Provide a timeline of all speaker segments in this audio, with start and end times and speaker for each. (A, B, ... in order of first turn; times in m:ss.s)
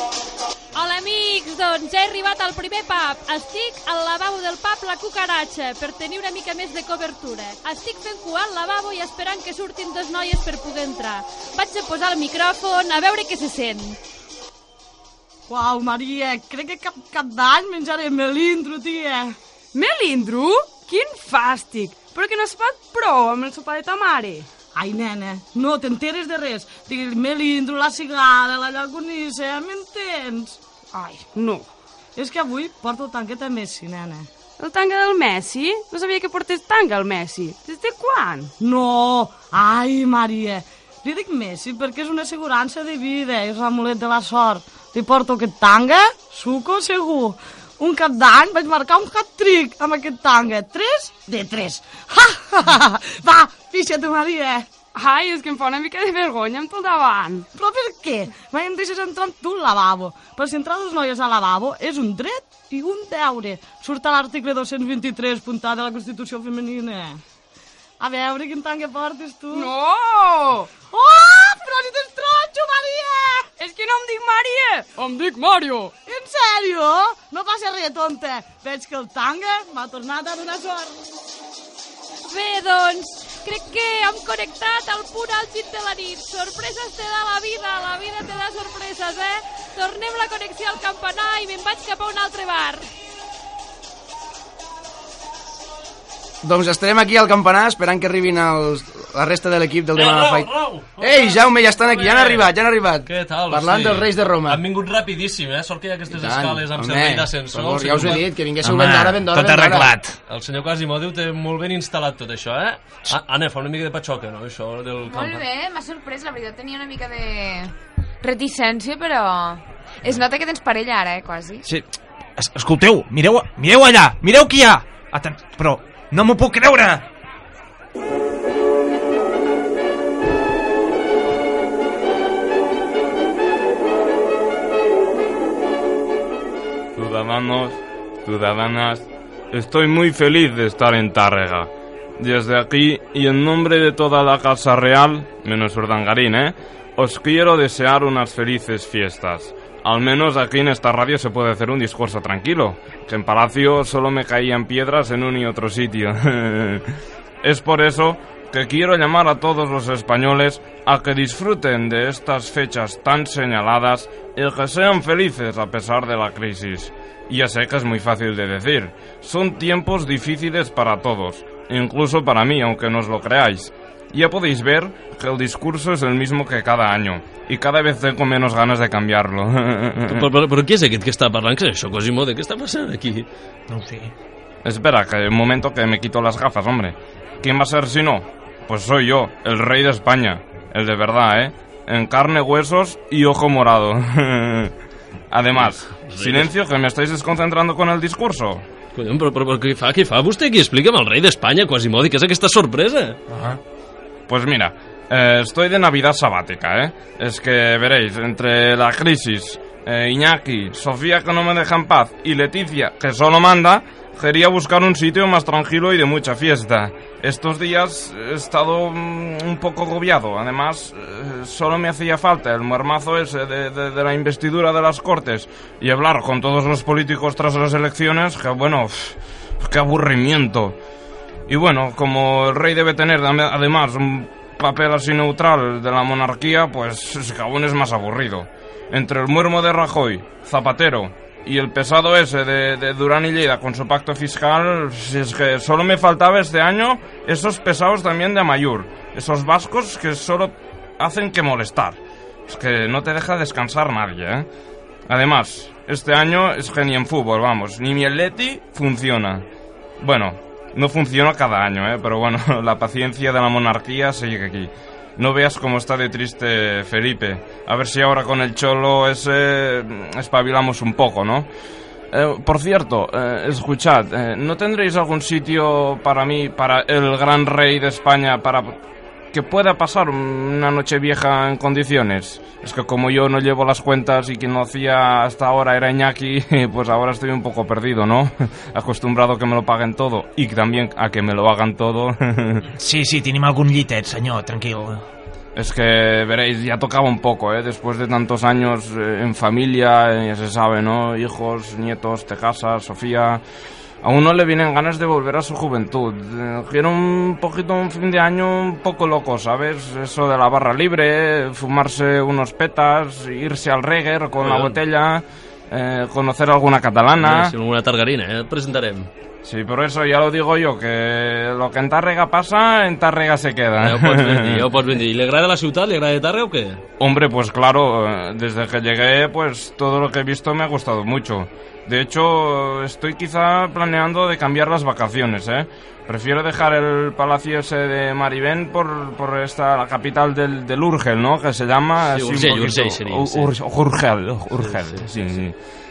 0:00.7-0:14.0 A
0:15.5-0:19.4 B
0:19.7-0:24.5 C
0:24.7-0:30.6 B
0:30.9-0:31.7 C
0:32.2-0:34.3 B
0:34.6-0:38.5 C
0:38.6-0:54.7 B
0:55.0-0:57.5 C
0:57.5-1:07.2 B
1:08.0-1:09.7 B
1:09.5-1:10.7 C
1:10.9-1:13.5 B
1:13.6-1:15.9 C
1:16.0-1:21.0 B
1:22.3-1:32.8 A
1:36.4-1:44.6 D
1:39.9-1:42.5 E
1:43.0-1:48.2 E
1:46.1-1:49.9 D
1:48.6-1:50.2 F
1:50.3-1:55.4 E
1:55.0-2:01.6 G
2:01.6-2:07.0 F
2:16.9-2:36.9 H
2:37.4-3:00.3 H
3:00.0-3:03.3 E
3:03.7-3:04.1 F
3:04.6-3:14.7 H
3:15.3-3:18.6 H
3:15.5-3:16.5 E
3:18.9-3:23.2 E
3:23.3-3:23.6 F
3:24.3-3:50.8 H
3:51.5-4:14.5 H
4:15.1-4:19.4 H
4:20.0-4:31.5 H
4:32.1-4:38.8 H
4:39.3-4:52.6 H
4:52.8-4:55.0 F
4:55.5-5:03.4 H
5:04.0-5:17.5 H
5:14.4-5:14.8 E
5:17.2-5:19.1 E
5:19.4-5:24.6 H
5:23.8-5:26.8 E
5:27.0-5:45.5 H
5:42.1-5:43.5 E
5:44.6-5:45.1 E